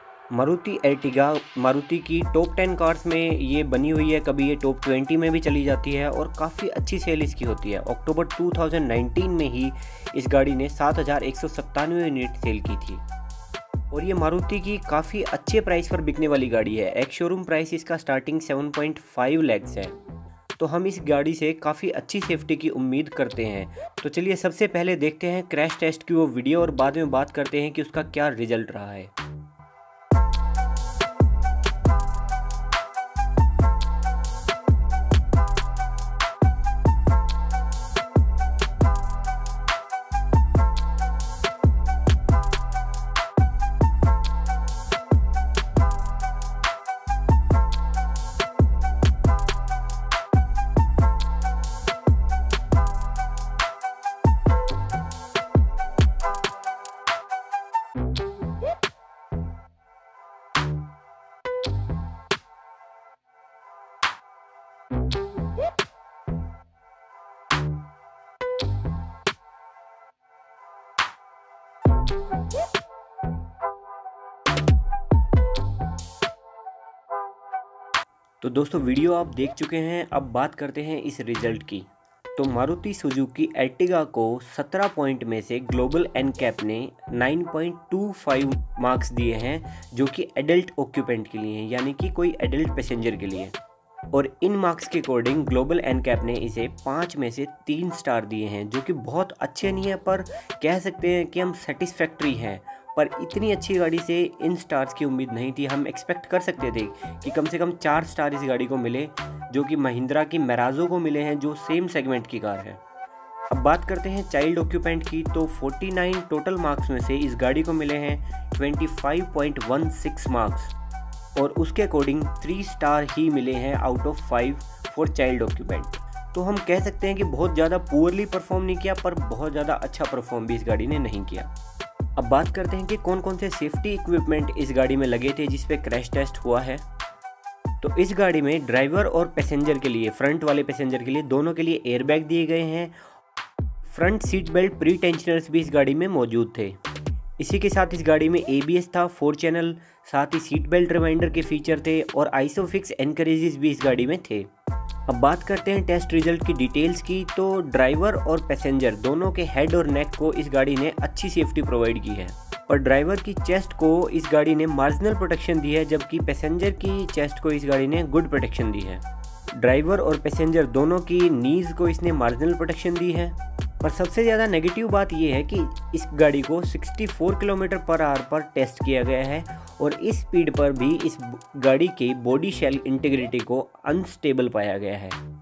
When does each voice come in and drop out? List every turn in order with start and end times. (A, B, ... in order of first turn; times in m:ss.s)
0:00.3-0:13.0 A
0:13.9-0:20.0 A
0:20.6-0:29.1 A
1:18.4-1:33.6 A
1:34.1-1:52.8 A
1:53.5-2:00.7 A
2:01.4-2:11.5 A
2:12.2-2:16.8 A
2:17.8-2:23.0 A
2:23.8-2:26.8 A
2:27.4-2:34.5 A
2:35.1-3:05.2 A